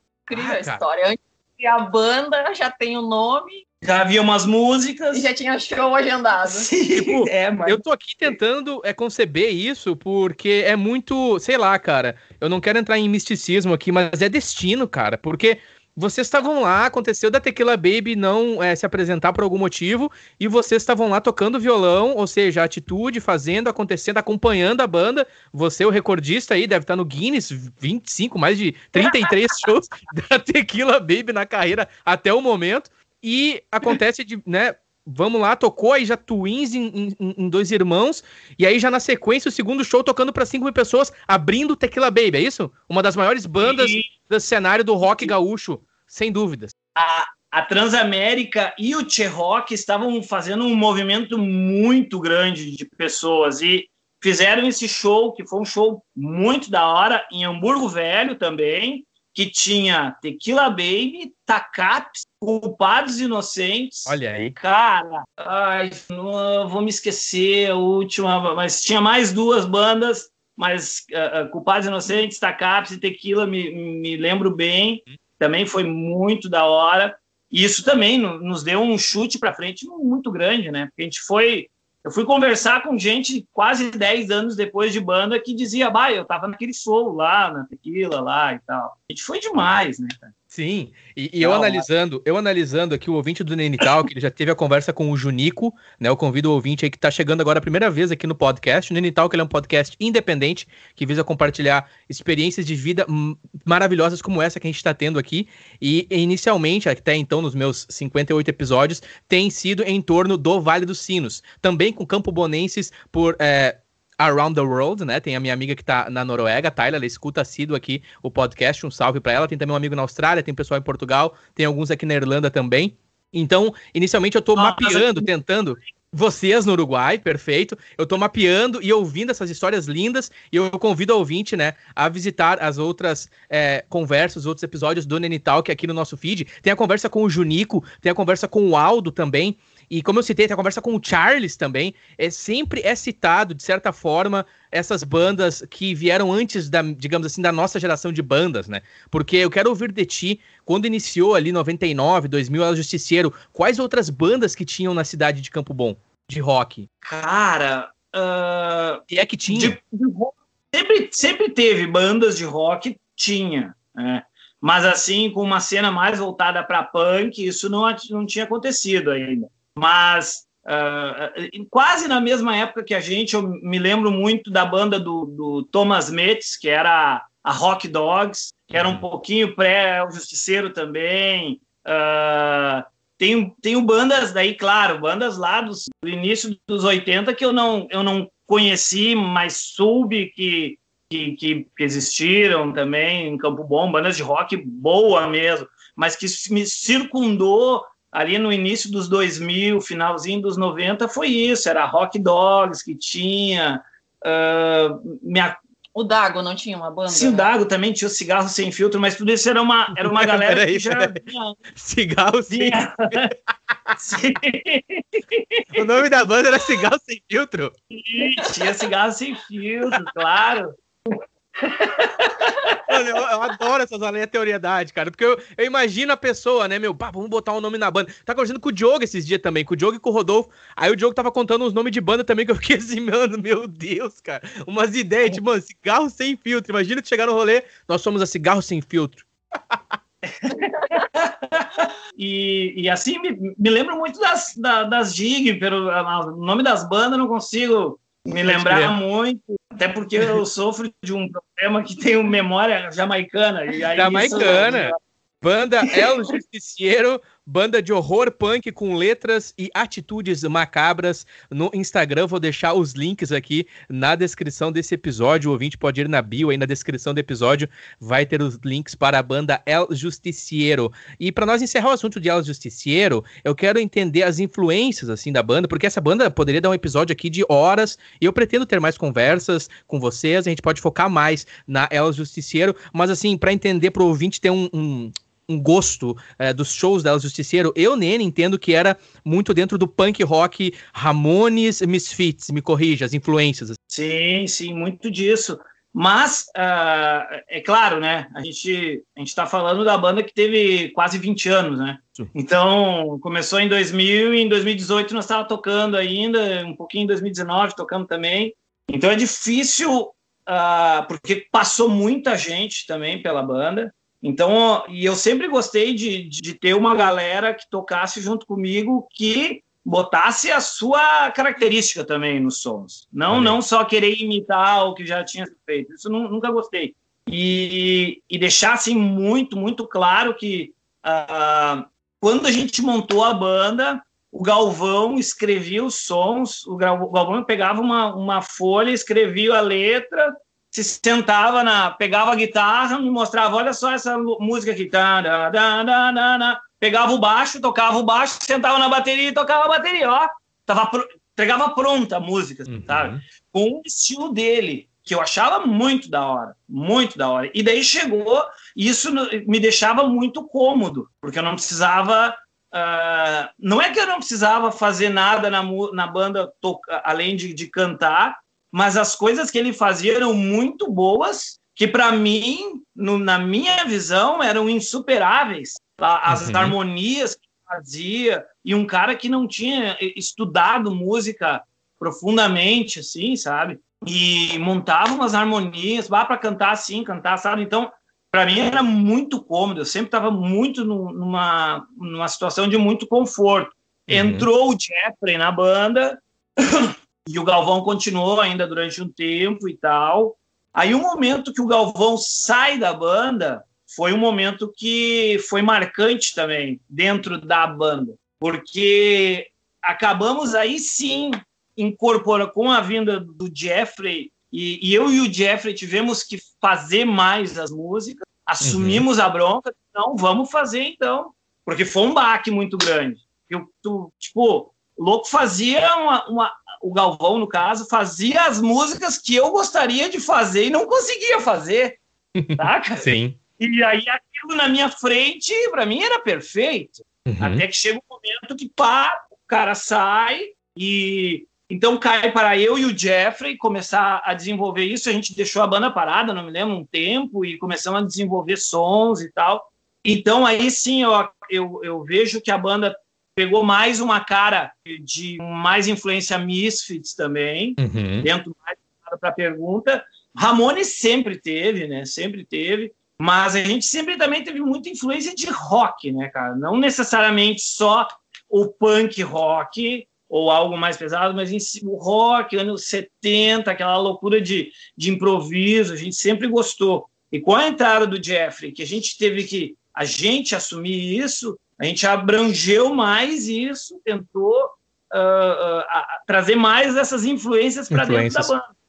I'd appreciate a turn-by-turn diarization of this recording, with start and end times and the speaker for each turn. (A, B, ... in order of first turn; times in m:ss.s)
0:00.2-0:03.6 A
0:00.3-0:00.8 B
0:03.8-0:05.3 C
0:05.1-0:07.8 A
0:06.4-0:07.4 C
0:07.6-0:46.7 B
0:43.6-0:44.1 C
0:47.0-1:30.3 C
1:04.1-1:04.5 B
1:30.5-2:36.9 B
1:31.4-1:31.8 C
2:04.6-2:05.3 C
2:37.0-3:25.6 C
2:39.1-2:39.8 B
2:58.7-2:59.0 B
3:25.9-3:27.5 A
3:27.1-3:31.6 C
3:30.0-3:31.2 B
3:31.7-3:33.2 B
3:32.5-3:33.3 C
3:34.0-3:35.8 C
3:35.8-3:37.7 B
3:37.9-3:42.8 C
3:42.9-3:59.9 B
4:00.2-4:15.0 C
4:08.4-4:08.9 B
4:14.0-4:53.8 B
4:15.8-4:16.2 C
4:53.9-7:12.0 C
5:23.3-5:23.6 B
5:52.7-5:53.2 B
6:16.3-6:16.8 B
6:34.1-6:34.5 B
6:58.6-6:59.0 B
7:12.4-7:13.4 B
7:12.6-7:13.1 C
7:13.6-8:08.7 C
7:17.3-7:17.6 B
7:37.8-7:38.3 B
8:07.9-8:08.5 B